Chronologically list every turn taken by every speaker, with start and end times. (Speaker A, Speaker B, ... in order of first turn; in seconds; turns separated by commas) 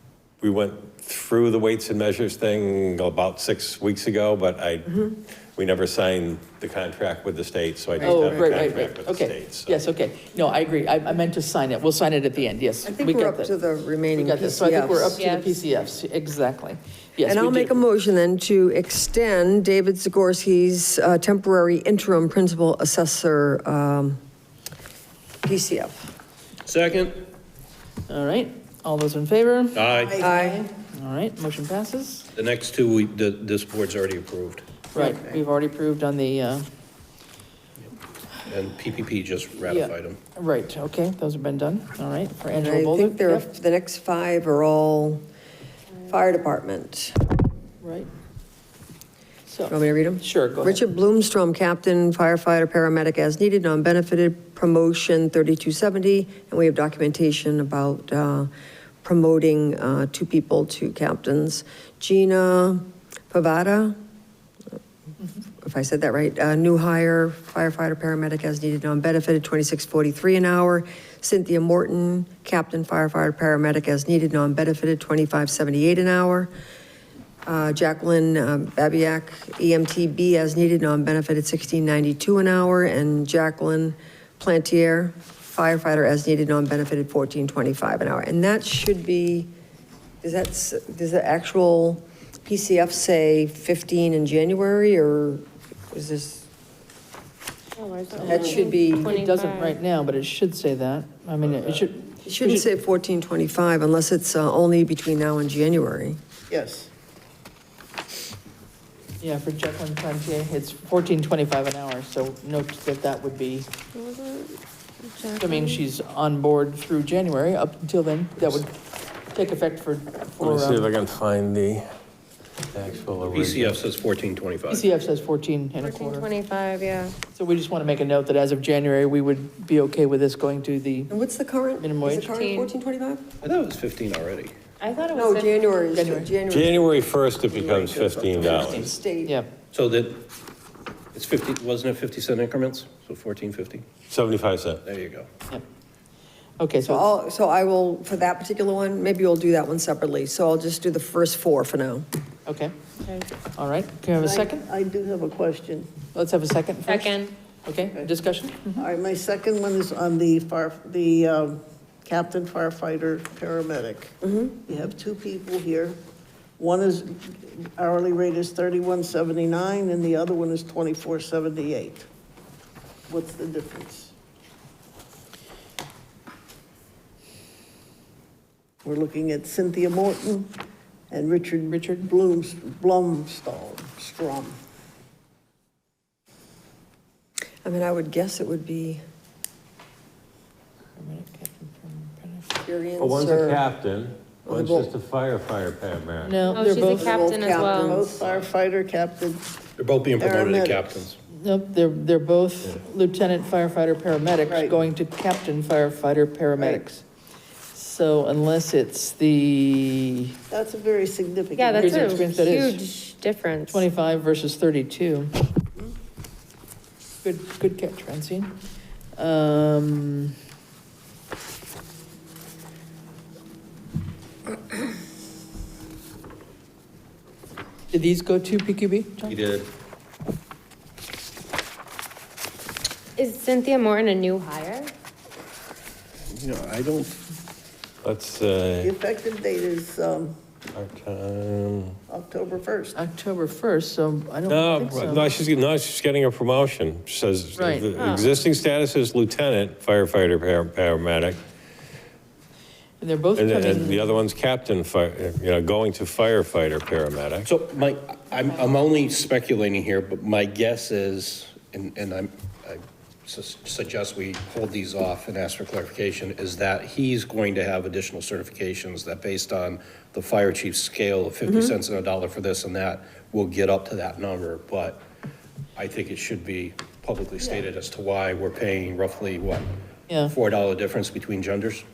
Speaker A: 0.4-5.0, Speaker B: 4.9-5.2, Speaker A: 5.5-9.8, Speaker C: 8.0-13.5, Speaker B: 8.0-8.5, Speaker B: 12.8-15.2, Speaker C: 14.2-17.7, Speaker D: 15.1-15.6, Speaker B: 17.2-24.2, Speaker B: 25.4-26.1, Speaker E: 26.6-27.2, Speaker C: 28.1-32.3, Speaker E: 29.8-30.2, Speaker B: 30.2-30.7, Speaker E: 32.4-34.6, Speaker C: 34.9-36.7, Speaker F: 35.0-35.4, Speaker E: 38.4-40.2, Speaker C: 39.6-43.5, Speaker B: 42.6-45.2, Speaker B: 46.0-47.2, Speaker C: 47.8-48.1, Speaker C: 49.5-50.8, Speaker B: 49.7-58.5, Speaker B: 59.0-64.0, Speaker B: 65.6-76.5, Speaker B: 77.5-89.5, Speaker B: 90.2-96.5, Speaker D: 97.8-99.8, Speaker C: 98.2-102.6, Speaker B: 98.2-99.2, Speaker B: 102.3-106.2, Speaker F: 106.5-106.9, Speaker C: 109.2-113.7, Speaker D: 114.0-115.8, Speaker C: 115.4-118.7, Speaker C: 119.3-120.9, Speaker A: 120.4-121.8, Speaker A: 122.7-123.8, Speaker E: 123.3-124.9, Speaker C: 124.7-126.3, Speaker D: 125.8-127.2, Speaker C: 127.3-131.1, Speaker B: 131.1-133.3, Speaker C: 131.8-132.3, Speaker D: 132.3-132.7, Speaker E: 133.4-134.5, Speaker D: 134.8-135.7, Speaker B: 135.1-137.0, Speaker C: 135.9-136.3, Speaker A: 136.5-138.9, Speaker F: 137.5-138.9, Speaker B: 138.4-139.4, Speaker C: 138.6-139.5, Speaker E: 139.7-140.3, Speaker E: 141.1-143.8, Speaker A: 144.1-144.8, Speaker E: 144.8-145.3, Speaker C: 146.6-147.1, Speaker B: 146.8-152.1, Speaker C: 152.5-152.7, Speaker D: 153.0-153.3, Speaker C: 153.6-154.6, Speaker F: 154.2-155.9, Speaker C: 156.1-158.9, Speaker D: 156.9-157.3, Speaker F: 158.8-166.0, Speaker B: 164.2-164.6, Speaker F: 166.6-172.1, Speaker F: 173.1-174.1, Speaker F: 178.8-180.5, Speaker F: 181.1-184.6, Speaker C: 181.7-182.1, Speaker B: 187.6-189.0, Speaker C: 191.0-192.5, Speaker B: 192.6-193.6, Speaker A: 193.0-196.4, Speaker B: 194.5-194.9, Speaker C: 196.2-197.3, Speaker D: 196.4-198.1, Speaker B: 196.9-198.2, Speaker F: 196.9-199.5, Speaker E: 199.8-201.2, Speaker F: 200.2-201.1, Speaker C: 201.3-207.0, Speaker F: 204.5-204.8, Speaker F: 206.6-206.8, Speaker C: 207.7-210.3, Speaker F: 210.5-212.5, Speaker D: 211.6-213.9, Speaker C: 211.8-212.9, Speaker C: 213.7-215.4, Speaker C: 217.2-218.6, Speaker C: 219.2-220.3, Speaker C: 227.9-229.3, Speaker E: 229.2-229.7, Speaker D: 233.2-234.9, Speaker E: 236.3-237.2, Speaker A: 238.0-238.9, Speaker F: 238.8-240.3, Speaker A: 240.8-242.0, Speaker F: 242.1-243.0, Speaker C: 242.9-245.3, Speaker A: 244.5-251.4, Speaker C: 247.6-247.9, Speaker D: 248.0-248.4, Speaker C: 253.0-254.1, Speaker A: 253.4-257.5, Speaker E: 257.4-275.0, Speaker B: 271.5-271.7, Speaker E: 275.8-279.7, Speaker C: 280.1-280.3, Speaker E: 280.3-281.9